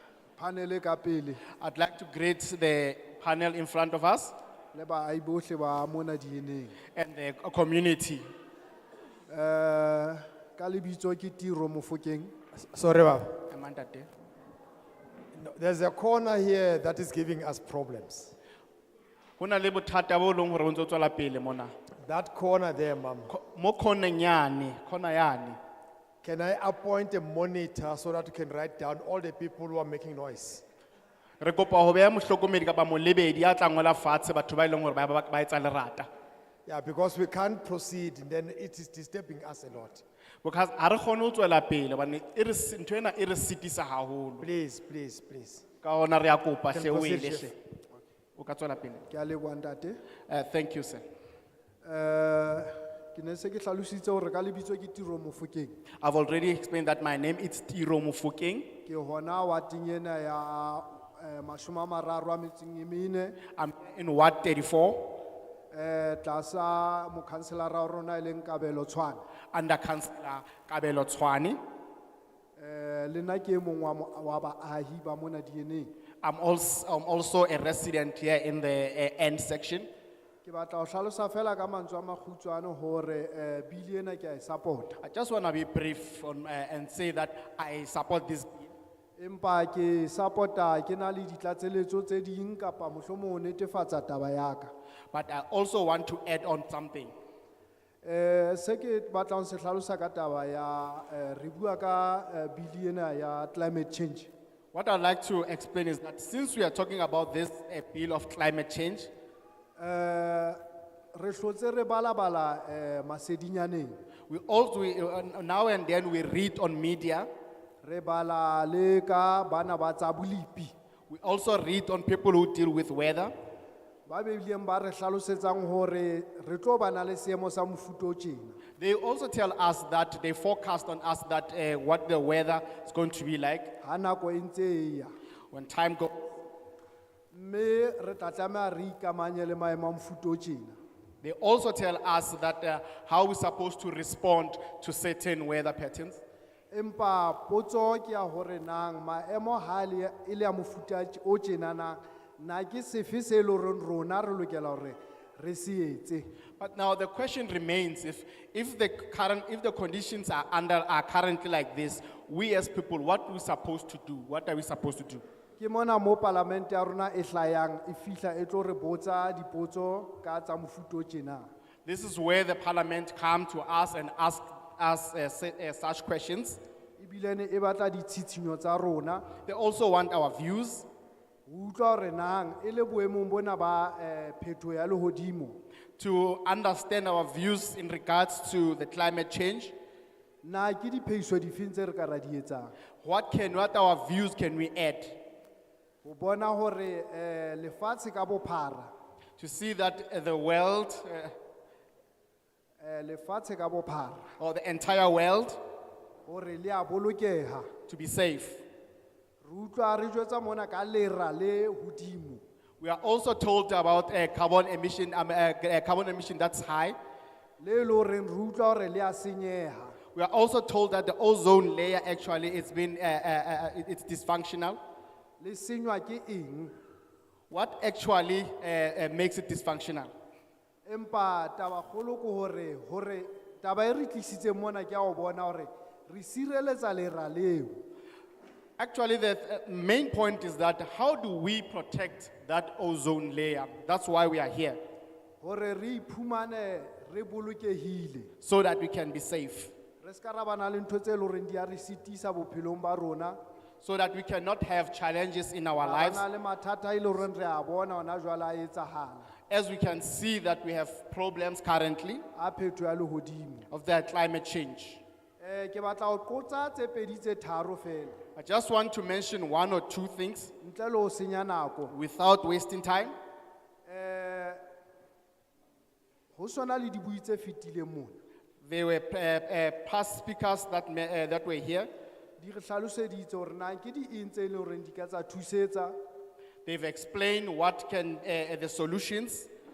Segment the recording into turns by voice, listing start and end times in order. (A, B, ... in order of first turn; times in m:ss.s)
0:00.4-0:01.4 A
0:01.6-0:04.3 B
0:04.7-0:06.8 A
0:06.9-0:08.2 B
0:09.3-0:12.3 A
0:12.6-0:13.4 C
0:13.5-0:14.1 B
0:15.3-0:18.4 C
0:19.4-0:21.7 B
0:22.0-0:23.3 C
0:23.3-0:25.6 B
0:26.2-0:30.6 C
0:31.4-0:36.1 B
0:36.6-0:40.0 C
0:40.4-0:44.5 B
0:44.4-0:45.6 C
0:45.8-0:47.5 B
0:46.7-0:47.5 C
0:48.4-0:49.0 B
0:49.1-0:50.0 A
0:50.3-0:51.0 B
0:51.8-0:55.8 A
0:56.0-0:58.8 B
0:58.8-1:03.4 A
1:03.5-1:05.1 B
1:05.7-1:09.2 A
1:09.5-1:11.6 B
1:12.6-1:15.9 A
1:16.2-1:19.9 B
1:20.4-1:25.0 A
1:25.0-1:28.7 B
1:29.2-1:34.7 A
1:35.1-1:37.1 B
1:38.0-1:44.3 A
1:44.7-1:49.1 B
1:49.8-1:50.6 A
1:51.1-1:54.0 A
1:54.3-1:57.3 B
1:57.8-2:00.7 A
2:01.1-2:03.3 B
2:04.1-2:08.6 A
2:08.8-2:13.7 B
2:13.8-2:15.1 A
2:15.5-2:16.3 B
2:17.3-2:20.8 A
2:21.2-2:26.2 B
2:26.7-2:36.3 A
2:36.6-2:45.2 B
2:45.6-2:51.5 A
2:51.8-2:56.6 B
2:57.0-2:59.3 A
2:59.4-3:00.9 B
3:01.5-3:05.6 A
3:06.0-3:09.7 B
3:10.4-3:12.7 A
3:13.0-3:15.2 B
3:16.0-3:18.9 A
3:19.4-3:21.3 B
3:22.8-3:24.3 A
3:24.4-3:25.6 B
3:26.3-3:27.7 A
3:27.9-3:28.6 B
3:29.4-3:32.4 A
3:32.8-3:37.0 B
3:37.6-3:40.0 A
3:40.1-3:44.8 B
3:45.4-3:46.7 A
3:47.5-3:50.1 B
3:50.8-3:57.8 A
3:58.8-4:04.8 B
4:05.4-4:08.3 A
4:08.4-4:09.7 B
4:10.0-4:13.4 A
4:13.8-4:16.2 B
4:15.8-4:19.3 A
4:19.5-4:22.2 B
4:22.4-4:23.7 A
4:23.7-4:25.0 B
4:25.4-4:28.2 A
4:28.4-4:30.5 B
4:30.6-4:31.9 A
4:31.9-4:33.1 B
4:33.9-4:34.6 A
4:36.3-4:38.2 A
4:38.6-4:41.9 B
4:42.4-4:46.0 A
4:46.6-4:49.5 B